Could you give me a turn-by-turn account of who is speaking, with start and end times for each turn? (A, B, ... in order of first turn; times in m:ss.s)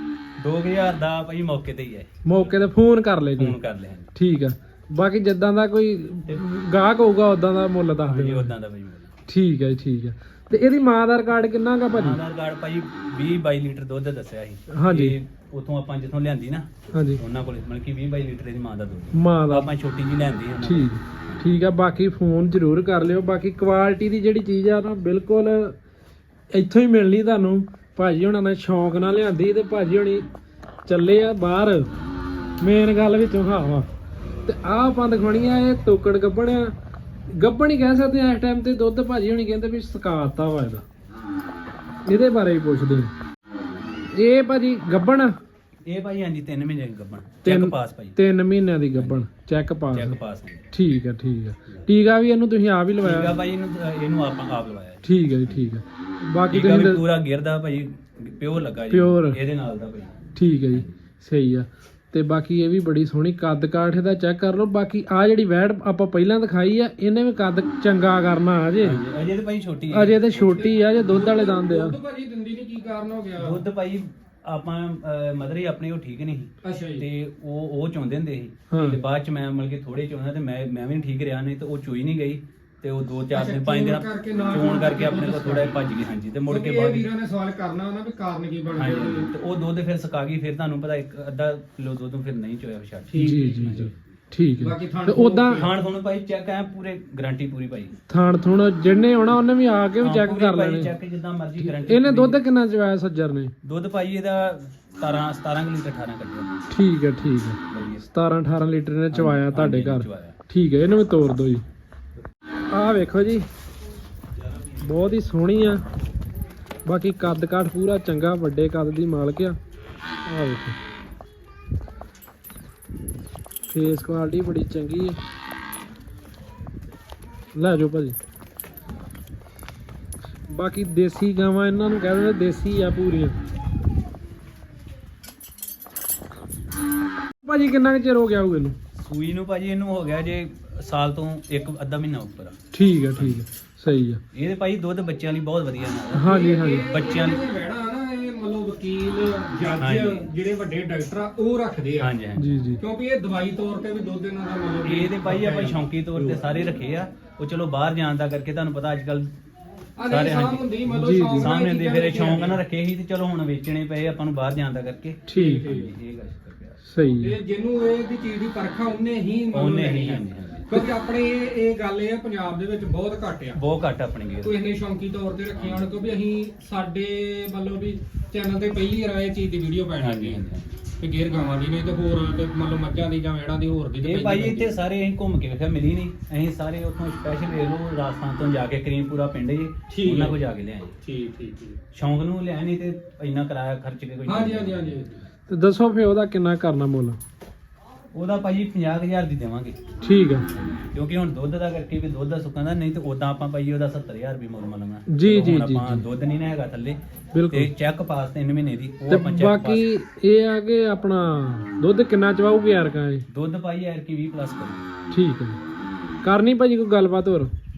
0:00.4-0:02.1 A
0:02.2-0:03.6 B
0:03.4-0:04.1 A
0:04.2-0:08.5 B
0:08.0-0:09.1 A
0:09.3-0:12.2 B
0:11.9-0:21.5 A
0:14.7-0:15.2 B
0:16.9-0:17.2 B
0:19.1-0:19.7 B
0:20.6-0:25.8 B
0:26.5-0:30.3 B
0:30.9-0:31.9 B
0:32.6-0:33.9 B
0:34.4-0:36.7 B
0:37.3-0:40.8 B
0:42.1-0:43.1 B
0:44.1-0:45.4 B
0:45.9-0:48.2 A
0:47.4-0:50.2 B
0:49.0-0:49.3 A
0:49.9-0:50.7 A
0:50.7-0:53.3 B
0:53.0-0:55.5 A
0:55.0-0:57.0 B
0:56.5-1:00.8 A
0:58.9-0:59.4 B
1:00.4-1:09.0 B
1:08.8-1:10.6 A
1:09.9-1:12.0 B
1:10.3-1:13.6 C
1:13.4-1:27.1 A
1:16.6-1:17.1 C
1:18.7-1:19.0 B
1:23.3-1:25.8 C
1:26.5-1:29.3 C
1:28.8-1:34.0 A
1:33.1-1:33.7 C
1:33.2-1:35.6 B
1:34.6-1:35.8 C
1:35.5-1:38.0 A
1:38.1-1:40.9 B
1:40.0-1:42.4 A
1:41.6-1:43.5 B
1:43.6-1:46.5 A
1:46.7-1:51.6 B
1:47.7-1:48.0 A
1:49.1-1:50.4 A
1:52.7-1:53.5 B
1:54.8-1:55.8 B
1:56.9-1:59.6 B
2:00.3-2:00.8 B
2:03.7-2:05.2 B
2:07.6-2:08.2 B
2:10.5-2:13.4 B
2:17.4-2:18.8 B
2:19.0-2:22.6 A
2:22.7-2:24.2 B
2:23.2-2:23.4 A
2:24.3-2:27.4 A
2:26.2-2:26.9 B
2:26.2-2:32.1 C
2:29.8-2:30.3 A
2:32.0-2:32.6 A
2:32.4-2:32.8 B
2:32.8-2:36.5 C
2:34.8-2:39.3 A
2:40.0-2:42.6 C
2:40.0-2:46.8 A
2:40.9-2:41.5 B
2:45.3-2:45.6 B
2:45.3-2:45.9 C
2:46.8-2:47.4 B
2:47.2-2:53.6 C
2:49.5-2:50.8 A
2:53.5-2:54.6 A
2:54.4-3:00.5 C
2:55.6-2:55.9 A
3:00.0-3:00.8 A
3:01.0-3:04.8 C
3:04.0-3:11.0 A
3:09.9-3:10.4 C
3:11.0-3:11.8 C
3:11.9-3:15.0 A
3:14.3-3:15.2 C
3:15.5-3:17.2 B
3:18.1-3:19.8 A
3:20.0-3:20.5 B
3:20.8-3:27.0 A
3:25.1-3:26.0 B
3:27.3-3:27.7 B
3:27.5-3:29.9 A
3:29.1-3:33.3 B
3:33.3-3:34.8 A
3:35.1-3:35.6 B
3:36.2-3:37.5 B